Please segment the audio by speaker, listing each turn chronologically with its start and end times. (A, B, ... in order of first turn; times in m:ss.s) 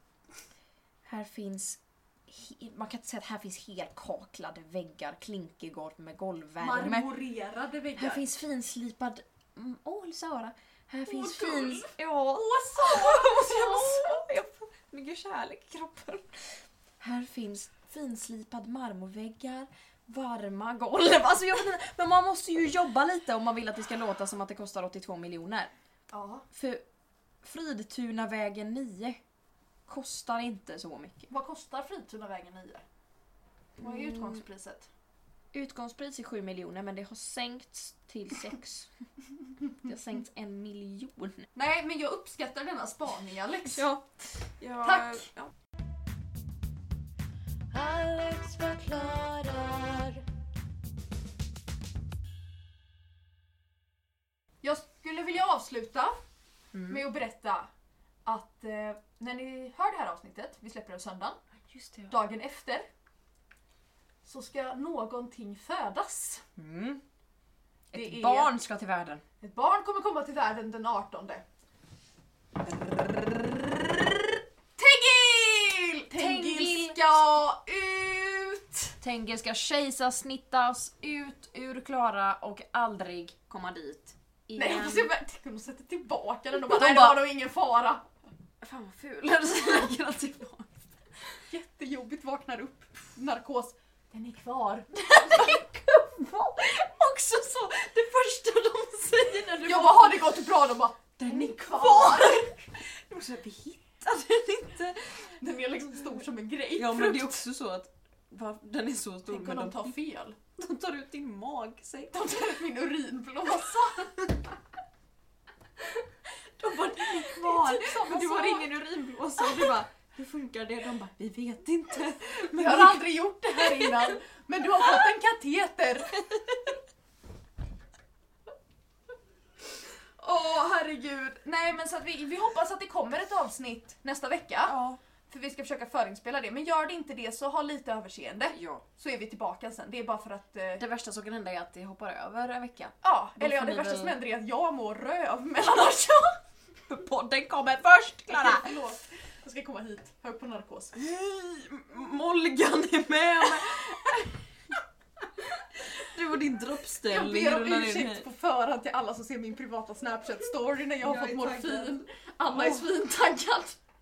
0:01.0-0:07.1 A
0:06.6-0:08.2 B
0:08.0-0:25.7 A
0:11.1-0:14.2 B
0:26.1-0:26.4 B
0:26.5-0:26.8 A
0:27.4-0:29.2 A
0:29.9-0:31.3 A
0:31.3-0:32.8 B
0:33.8-0:34.4 A
0:33.8-0:34.9 B
0:35.5-0:38.9 A
0:39.6-0:41.5 A
0:41.6-0:43.9 B
0:43.7-0:45.5 A
0:44.8-0:45.3 B
0:47.7-0:50.2 C
0:54.6-0:56.2 B
0:56.7-0:57.0 A
0:56.9-0:57.7 B
0:58.2-1:01.4 B
1:01.7-1:02.2 A
1:02.1-1:02.9 B
1:04.2-1:06.4 B
1:06.6-1:07.0 A
1:07.9-1:09.2 A
1:07.9-1:08.5 B
1:09.4-1:11.4 B
1:12.6-1:19.0 B
1:16.1-1:17.2 A
1:19.0-1:25.1 A
1:24.6-1:28.1 B
1:26.7-1:27.2 A
1:28.6-1:30.9 A
1:31.5-1:35.6 B
1:34.9-1:40.3 A
1:39.6-1:42.5 B
1:41.2-1:45.1 A
1:45.4-1:47.4 B
1:46.7-1:49.9 A
1:49.3-1:50.4 B
1:50.6-1:52.2 A
1:52.1-1:54.5 B
1:56.6-2:04.1 A
1:57.3-1:58.7 B
2:02.5-2:06.1 B
2:06.2-2:06.6 A
2:10.2-2:14.7 B
2:14.6-2:15.0 A
2:15.3-2:20.8 B
2:18.5-2:18.8 A
2:20.8-2:24.2 A
2:23.0-2:26.4 B
2:26.9-2:28.9 A
2:28.3-2:31.0 B
2:30.9-2:34.4 A
2:35.8-2:38.3 A
2:37.1-2:43.8 B
2:41.0-2:42.8 A